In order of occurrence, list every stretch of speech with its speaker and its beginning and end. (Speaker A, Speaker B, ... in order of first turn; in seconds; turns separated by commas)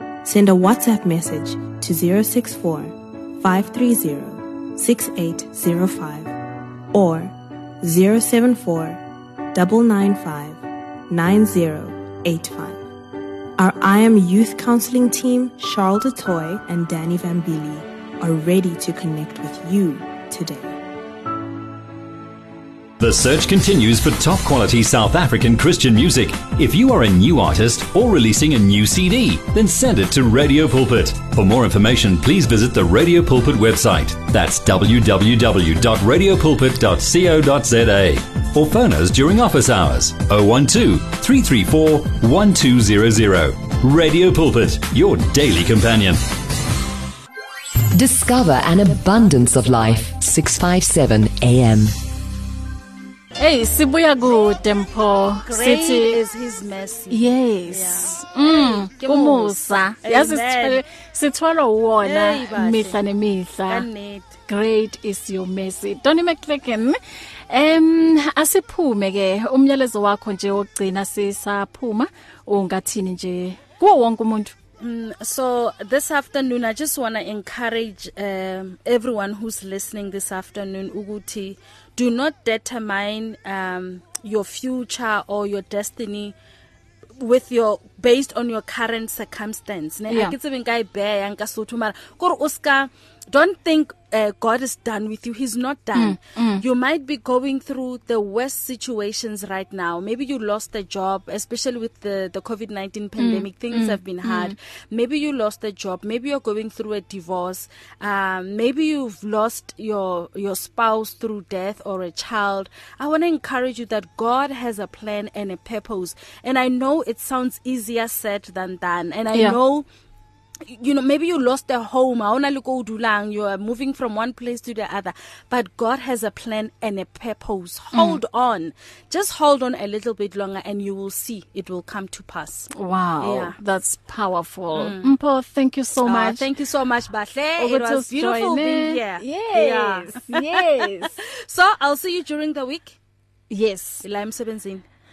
Speaker A: 0.2-6.3, Speaker A: 6.9-9.0, Speaker A: 9.5-12.8, Speaker A: 13.6-20.8, Speaker B: 23.0-46.2, Speaker C: 47.9-52.0, Speaker D: 53.4-56.2, Speaker E: 55.5-60.8, Speaker D: 57.1-63.9, Speaker E: 62.0-63.0, Speaker E: 63.7-64.4, Speaker D: 64.5-67.0, Speaker D: 67.5-74.5, Speaker E: 74.8-86.4, Speaker E: 87.2-119.9, Speaker D: 90.1-90.3, Speaker D: 96.0-96.6, Speaker D: 103.2-104.5, Speaker E: 120.7-133.6, Speaker D: 127.9-128.2, Speaker D: 132.7-136.4, Speaker E: 134.8-135.1, Speaker E: 136.1-142.9, Speaker D: 137.6-141.2, Speaker D: 143.5-144.1, Speaker E: 144.0-144.8